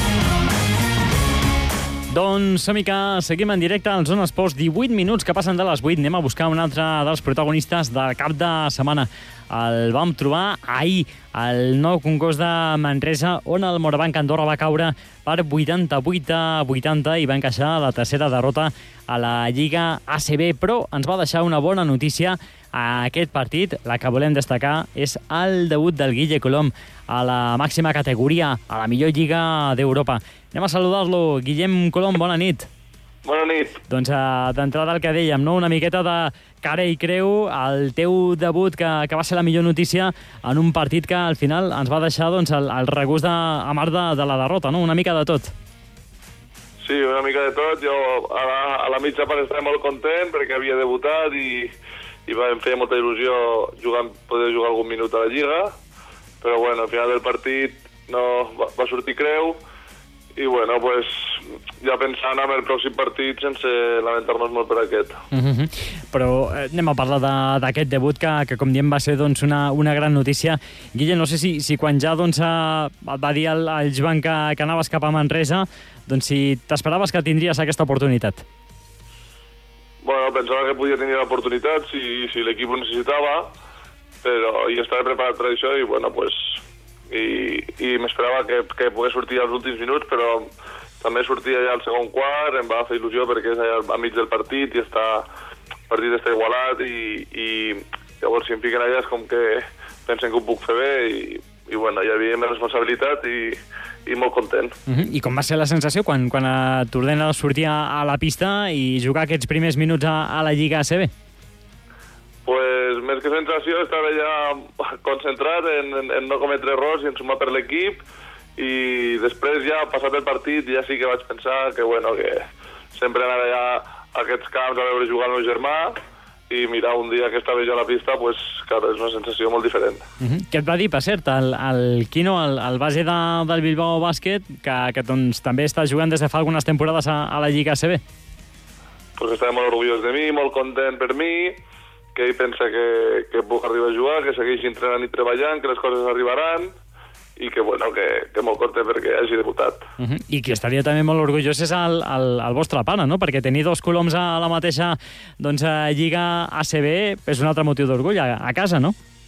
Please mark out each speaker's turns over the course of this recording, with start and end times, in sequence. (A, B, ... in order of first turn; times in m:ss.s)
0:02.1-0:32.7 A
0:33.2-0:33.8 B
0:33.9-0:45.5 A
0:46.8-0:51.7 B
0:52.3-0:55.7 B
0:56.4-0:59.6 B
1:00.4-1:05.2 B
1:05.3-1:18.4 A
1:20.0-1:23.5 B
1:24.2-1:30.5 B
1:31.0-1:35.3 B
1:35.9-1:44.7 B
1:44.9-1:51.1 A
1:52.4-1:58.0 B
1:58.6-2:06.0 B
2:06.5-2:10.0 B
2:10.2-2:18.0 A
2:19.2-2:21.6 B
2:22.1-2:26.7 B
2:27.4-2:29.8 B
2:30.0-2:38.9 A